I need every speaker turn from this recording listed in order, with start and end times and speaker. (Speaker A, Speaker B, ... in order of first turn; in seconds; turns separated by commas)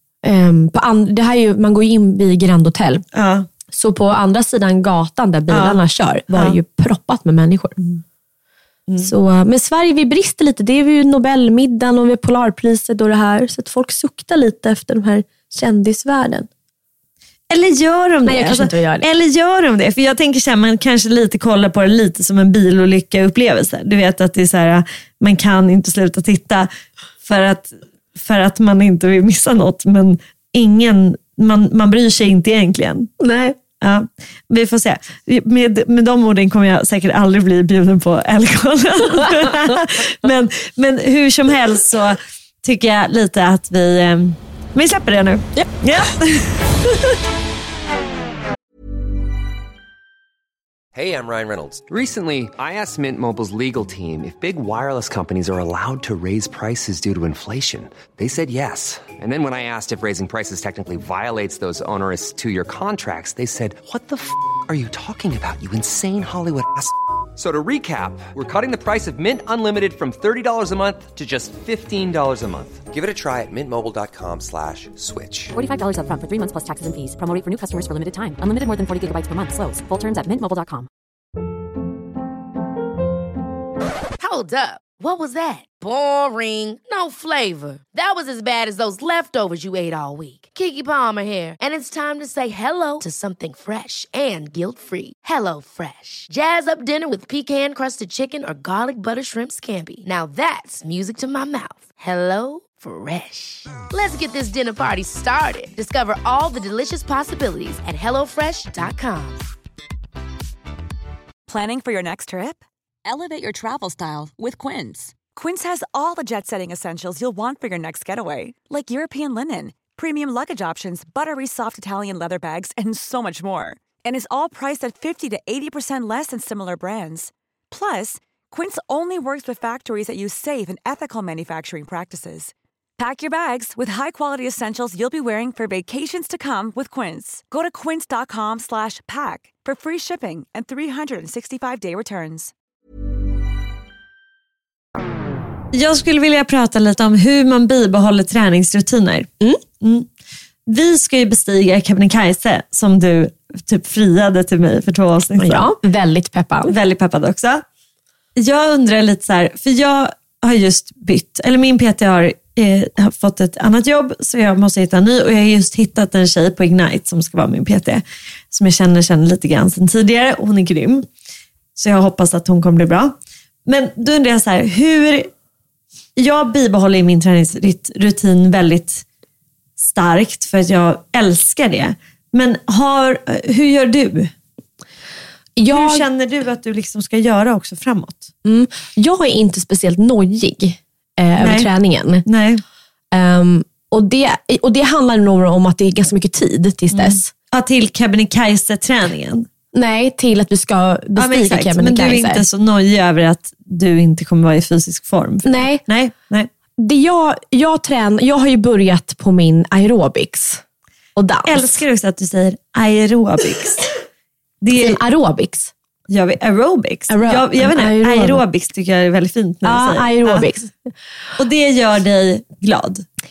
Speaker A: 0.2-3.0, Speaker B: 3.1-3.5, Speaker A: 3.7-7.8, Speaker B: 5.5-5.8, Speaker A: 9.0-16.5, Speaker B: 17.5-26.7, Speaker A: 18.2-19.1, Speaker B: 27.2-33.1, Speaker A: 33.2-33.5, Speaker B: 33.8-46.9, Speaker C: 50.9-75.5, Speaker D: 75.5-80.9, Speaker E: 84.2-109.5, Speaker F: 111.5-142.5, Speaker B: 145.7-150.1, Speaker B: 150.7-155.7, Speaker A: 155.4-156.7, Speaker B: 156.6-157.6, Speaker B: 158.3-171.1, Speaker B: 171.8-173.1, Speaker B: 173.7-175.3, Speaker B: 176.2-179.0, Speaker B: 179.8-184.3, Speaker A: 185.6-186.1, Speaker B: 185.7-188.3, Speaker A: 188.4-192.2, Speaker B: 191.4-191.7, Speaker B: 192.2-192.6, Speaker A: 193.1-197.3, Speaker B: 196.9-199.5, Speaker A: 199.7-202.4, Speaker B: 201.2-206.5, Speaker A: 205.4-205.8, Speaker A: 206.8-210.6, Speaker A: 211.2-211.7, Speaker B: 211.4-213.9, Speaker B: 214.6-215.0, Speaker A: 214.7-215.7, Speaker B: 216.1-220.5, Speaker A: 217.1-218.4, Speaker A: 219.6-220.7, Speaker B: 221.4-223.0